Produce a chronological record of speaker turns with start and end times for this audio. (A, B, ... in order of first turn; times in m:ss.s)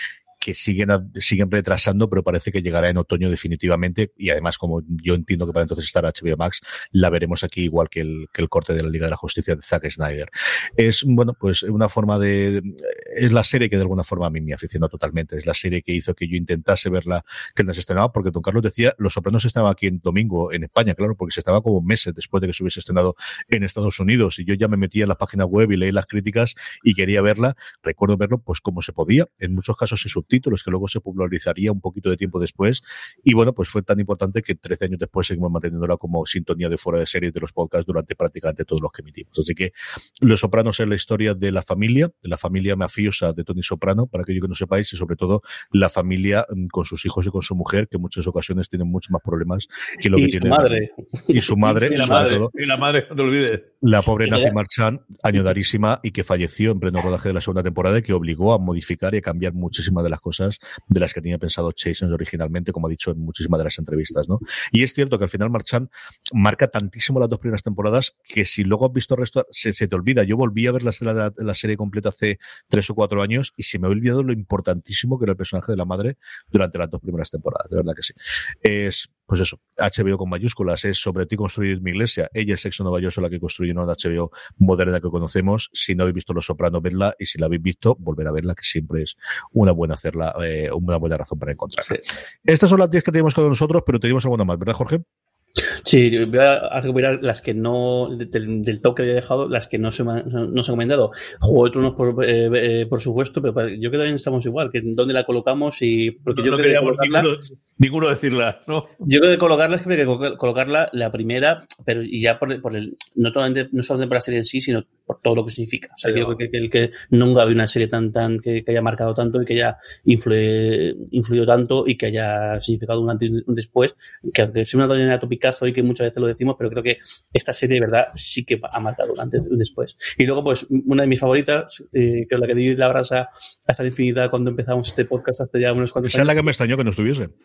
0:00.4-0:50.8 A
0:50.1-0:52.4 B
0:51.3-0:52.5 A
0:51.9-0:53.7 C
0:53.8-1:35.0 A
0:54.2-0:54.5 B
1:35.8-1:47.3 B
1:46.3-1:49.0 C
1:49.0-2:16.5 B
1:56.0-1:56.4 C
2:16.0-2:17.3 A